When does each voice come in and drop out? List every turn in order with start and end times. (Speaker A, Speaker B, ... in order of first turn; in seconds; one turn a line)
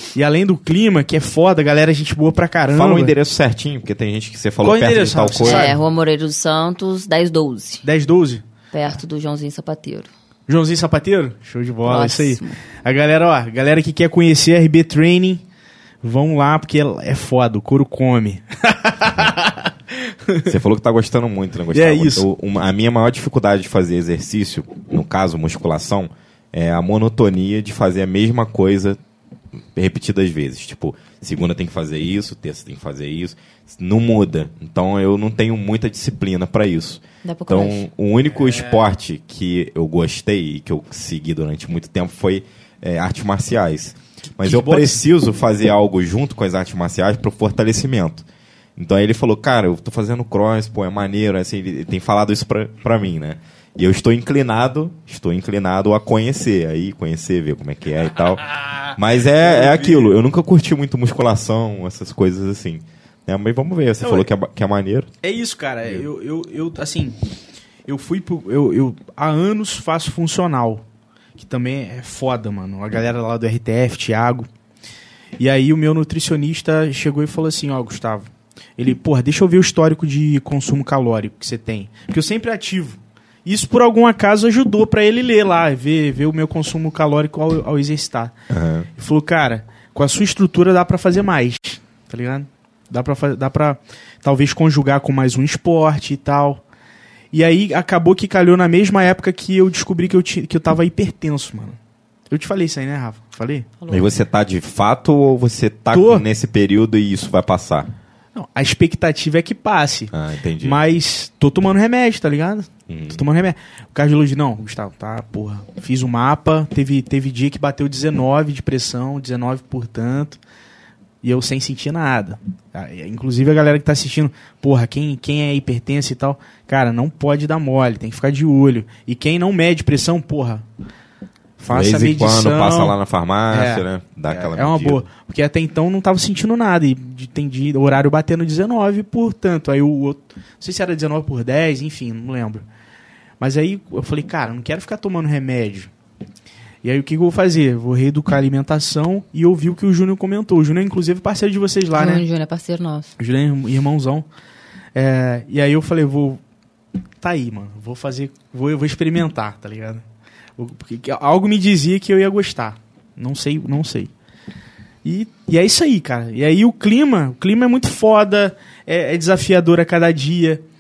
Speaker A: 0.1-3.1
Speaker B: 2.7-5.8
Speaker A: 4.6-5.8
Speaker C: 5.4-7.8
Speaker A: 7.8-8.4
Speaker C: 8.7-10.1
Speaker A: 10.5-15.4
Speaker C: 11.8-12.6
Speaker A: 16.0-20.6
Speaker B: 20.5-29.0
Speaker A: 21.7-22.3
Speaker B: 29.7-48.2
Speaker C: 37.2-37.9
Speaker A: 38.4-38.9
Speaker A: 44.4-45.0
Speaker B: 48.8-65.1
Speaker A: 59.4-60.2
Speaker A: 64.0-64.3
Speaker A: 65.2-67.2
Speaker A: 67.9-70.8
Speaker A: 71.4-74.5
Speaker A: 75.4-88.3
Speaker B: 88.5-88.9
Speaker A: 89.0-96.6
Speaker A: 97.3-101.8
Speaker A: 102.3-103.7
Speaker C: 103.8-104.2
Speaker B: 103.9-107.9
Speaker A: 105.9-106.2
Speaker A: 108.3-120.4
Speaker B: 110.1-110.8
Speaker B: 112.9-113.2
Speaker A: 121.2-130.7
Speaker A: 131.6-133.0
Speaker B: 131.7-135.0
Speaker A: 133.5-142.6
Speaker A: 143.4-145.9
Speaker A: 146.8-152.2
Speaker C: 151.9-153.1
Speaker A: 153.2-154.3
Speaker A: 154.9-156.4
Speaker A: 157.2-160.0
Speaker A: 160.6-164.1
Speaker A: 165.1-170.6